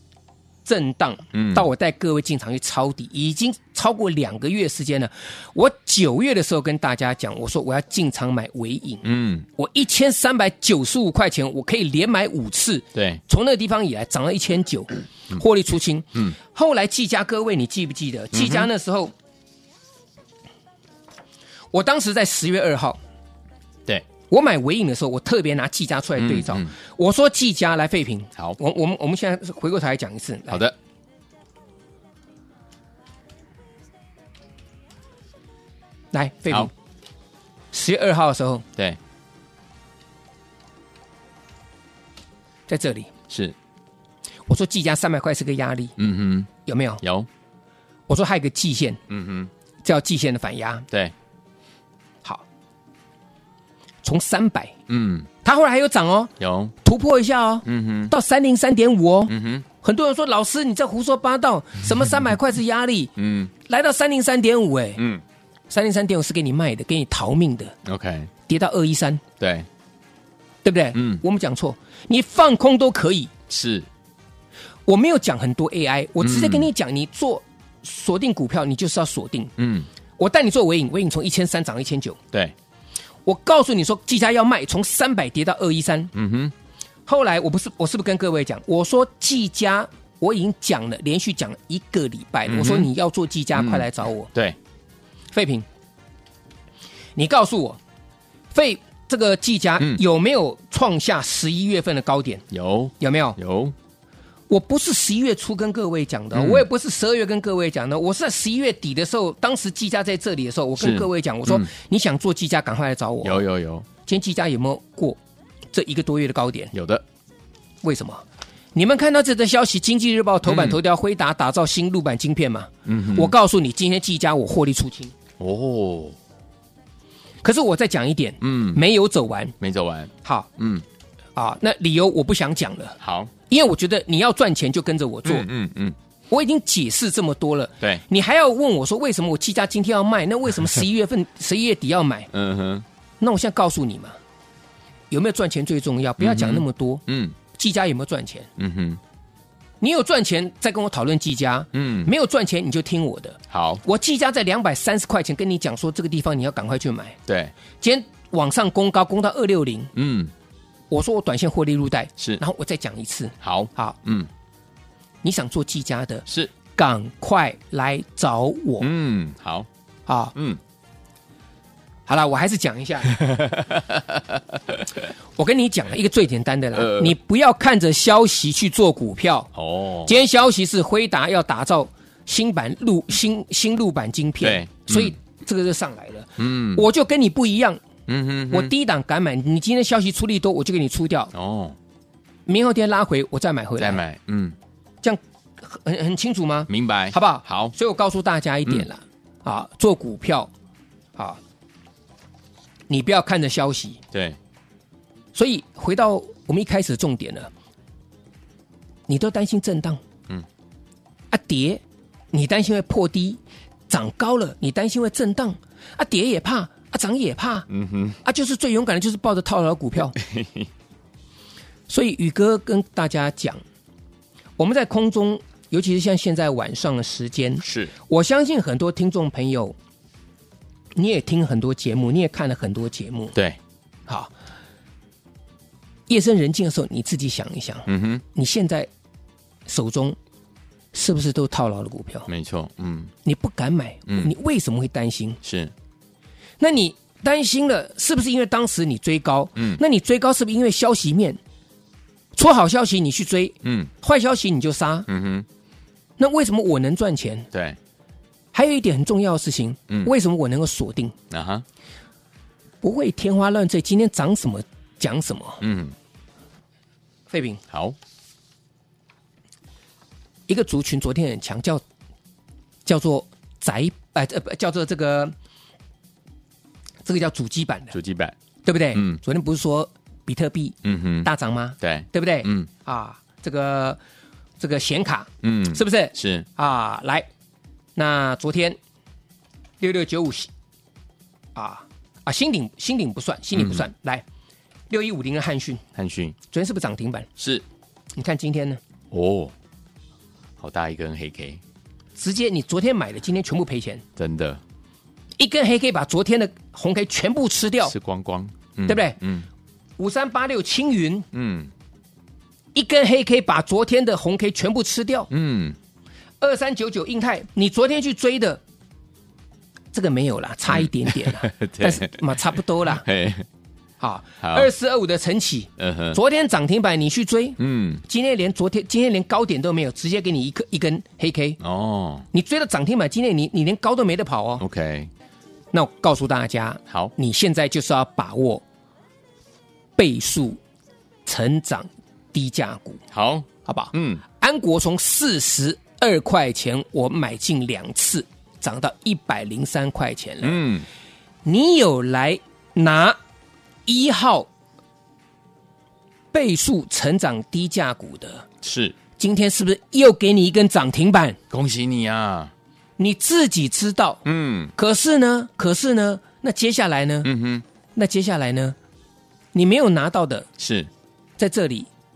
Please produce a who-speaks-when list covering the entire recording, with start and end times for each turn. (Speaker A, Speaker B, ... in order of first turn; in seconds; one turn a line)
Speaker A: 0.7-9.1
Speaker B: 1.3-1.7
Speaker B: 9.0-9.5
Speaker A: 9.6-19.1
Speaker B: 12.9-13.2
Speaker B: 18.3-18.7
Speaker A: 21.7-23.0
Speaker A: 24.3-30.6
Speaker B: 26.2-26.7
Speaker B: 30.5-30.8
Speaker A: 36.1-36.7
Speaker A: 37.7-38.6
Speaker A: 42.7-43.1
Speaker B: 43.3-43.5
Speaker A: 44.5-46.0
Speaker B: 46.0-47.3
Speaker A: 46.7-47.0
Speaker A: 48.1-49.0
Speaker B: 49.1-49.5
Speaker A: 49.8-50.9
Speaker A: 54.0-54.8
Speaker B: 54.9-55.3
Speaker A: 55.4-63.1
Speaker B: 56.4-56.7
Speaker B: 57.6-58.1
Speaker B: 59.3-59.6
Speaker B: 63.2-63.5
Speaker A: 63.6-65.0
Speaker A: 65.7-67.8
Speaker B: 67.9-68.3
Speaker A: 68.5-69.2
Speaker B: 69.4-69.7
Speaker A: 70.6-73.3
Speaker B: 71.0-71.2
Speaker B: 73.5-73.9
Speaker A: 74.9-79.5
Speaker B: 76.2-76.7
Speaker B: 79.6-79.9
Speaker A: 80.2-82.2
Speaker A: 83.2-86.1
Speaker B: 86.1-86.5
Speaker A: 87.1-94.3
Speaker B: 92.5-92.9
Speaker B: 93.5-94.6
Speaker A: 95.3-95.7
Speaker A: 97.2-97.8
Speaker A: 98.5-102.4
Speaker B: 102.5-103.8
Speaker A: 103.0-103.4
Speaker A: 104.5-113.4
Speaker B: 106.3-106.7
Speaker B: 110.8-111.7
Speaker B: 113.2-113.9
Speaker A: 114.0-115.2
Speaker A: 115.7-116.7
Speaker B: 116.7-117.0
Speaker A: 117.8-118.2
Speaker A: 118.8-125.1
Speaker B: 120.5-120.8
Speaker B: 122.9-123.3
Speaker B: 125.4-126.2
Speaker A: 127.4-129.6
Speaker B: 128.4-128.8
Speaker B: 129.6-130.8
Speaker A: 130.2-130.5
Speaker A: 131.4-133.0
Speaker B: 133.0-133.3
Speaker A: 133.5-135.5
Speaker B: 135.3-136.0
Speaker A: 136.3-142.3
Speaker B: 142.3-142.8
Speaker A: 143.2-144.2
Speaker A: 145.1-147.0
Speaker B: 146.2-147.4
Speaker A: 147.5-148.5
Speaker B: 148.6-149.0
Speaker A: 149.8-157.2
Speaker B: 151.7-152.1
Speaker B: 153.5-153.8
Speaker B: 157.3-157.5
Speaker A: 157.8-159.9
Speaker B: 160.0-160.3
Speaker A: 160.9-164.0
Speaker B: 163.4-164.3
Speaker A: 165.2-168.9
Speaker B: 168.8-169.7
Speaker A: 170.1-170.3
Speaker A: 172.1-173.2
Speaker B: 173.2-174.2
Speaker A: 175.4-179.5
Speaker B: 176.8-177.2
Speaker B: 179.6-180.1
Speaker A: 180.1-187.8
Speaker B: 184.4-185.2
Speaker B: 186.4-186.9
Speaker B: 188.1-188.7
Speaker A: 188.5-191.3
Speaker B: 191.3-191.8
Speaker A: 192.5-194.0
Speaker B: 193.8-194.6
Speaker A: 195.0-200.5
Speaker B: 196.7-197.7
Speaker A: 202.9-204.0
Speaker B: 204.1-204.4
Speaker A: 205.3-207.5
Speaker A: 209.1-210.0
Speaker A: 211.3-217.7
Speaker B: 217.7-218.2
Speaker A: 218.2-220.2
Speaker B: 220.2-220.7
Speaker A: 221.9-223.6
Speaker A: 224.6-229.8
Speaker B: 227.6-227.9
Speaker A: 230.9-233.3
Speaker A: 236.1-238.9
Speaker B: 237.9-238.2
Speaker A: 239.7-240.2
Speaker A: 240.9-242.3
Speaker B: 242.3-243.1
Speaker A: 243.2-245.4
Speaker B: 245.4-245.7
Speaker A: 246.6-251.4
Speaker B: 249.6-249.8
Speaker A: 252.3-255.1
Speaker B: 253.6-253.9
Speaker B: 255.1-255.5
Speaker A: 256.2-257.5
Speaker B: 257.5-257.8
Speaker A: 258.5-261.1
Speaker B: 261.3-261.6
Speaker A: 262.8-265.6
Speaker B: 265.6-265.9
Speaker A: 267.3-267.6
Speaker A: 270.5-271.8
Speaker A: 272.9-275.4
Speaker A: 277.1-277.9
Speaker B: 277.9-278.4
Speaker A: 278.6-284.0
Speaker B: 278.9-279.2
Speaker B: 280.8-281.3
Speaker B: 281.8-282.7
Speaker A: 284.6-287.3
Speaker B: 285.4-286.5
Speaker A: 288.0-288.8
Speaker A: 289.8-290.5
Speaker A: 291.6-294.2
Speaker B: 293.6-293.8
Speaker A: 294.9-295.8
Speaker B: 296.0-296.4
Speaker A: 296.5-297.3
Speaker B: 297.4-297.6
Speaker A: 298.2-298.8
Speaker B: 299.1-299.5
Speaker B: 300.6-301.6
Speaker A: 302.2-304.0
Speaker B: 304.2-304.6
Speaker A: 305.4-307.9
Speaker B: 307.9-309.5
Speaker A: 308.9-309.2
Speaker A: 310.0-311.3
Speaker B: 311.3-311.7
Speaker A: 312.8-315.3
Speaker B: 315.3-315.8
Speaker A: 316.4-318.6
Speaker A: 319.9-323.1
Speaker B: 320.7-322.2
Speaker B: 323.0-323.5
Speaker A: 324.0-331.6
Speaker B: 324.4-324.7
Speaker B: 325.8-326.2
Speaker B: 327.6-328.0
Speaker B: 331.6-332.3
Speaker A: 332.3-334.6
Speaker B: 334.6-335.1
Speaker A: 335.7-338.6
Speaker A: 340.0-340.6
Speaker A: 341.3-343.0
Speaker B: 343.1-344.2
Speaker A: 343.6-350.6
Speaker B: 350.4-350.9
Speaker A: 351.4-353.2
Speaker A: 353.9-354.5
Speaker A: 356.3-358.5
Speaker B: 358.6-358.9
Speaker A: 359.2-361.4
Speaker B: 361.5-362.5
Speaker A: 363.0-364.2
Speaker B: 364.2-364.7
Speaker A: 364.8-367.3
Speaker B: 367.2-367.6
Speaker A: 368.0-368.8
Speaker A: 369.5-370.5
Speaker B: 370.6-370.9
Speaker A: 371.4-371.9